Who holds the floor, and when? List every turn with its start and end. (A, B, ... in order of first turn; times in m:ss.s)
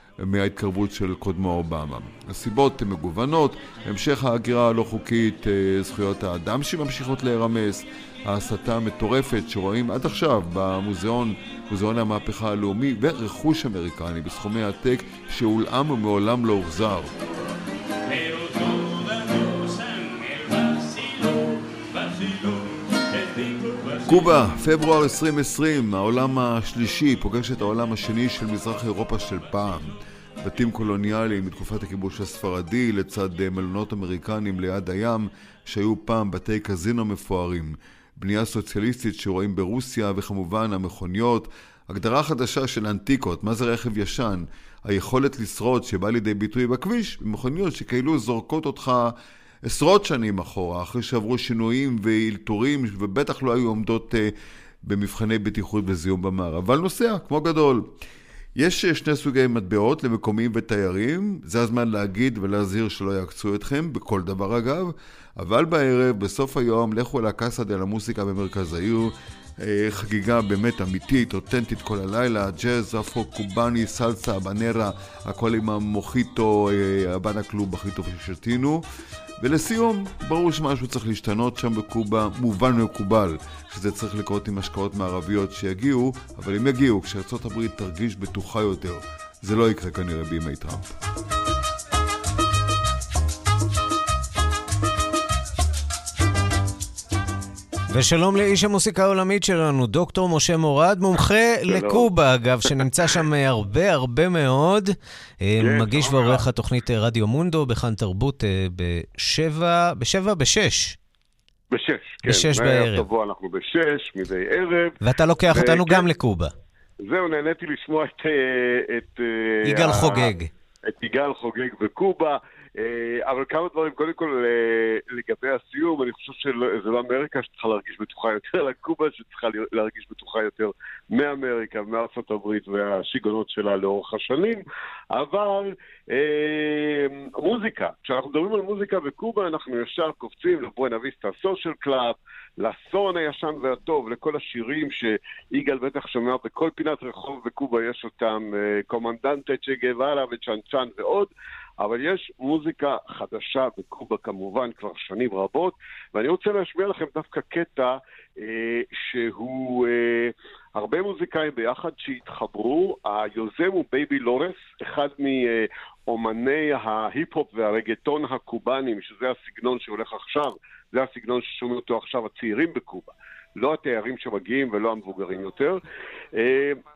0:00.2-0:17.1 A
0:24.0-0:49.1 A
0:49.6-0:54.3 A
0:54.8-0:57.9 A
0:58.6-1:18.8 A
1:19.4-1:30.9 A
1:37.9-1:51.0 B
1:45.7-1:46.4 C
1:51.7-1:54.9 C
1:52.2-1:53.1 B
1:55.0-1:56.5 B
1:55.6-1:56.0 C
1:57.1-2:00.2 C
1:59.6-2:00.5 B
2:00.9-2:55.8 C
2:56.4-2:56.8 C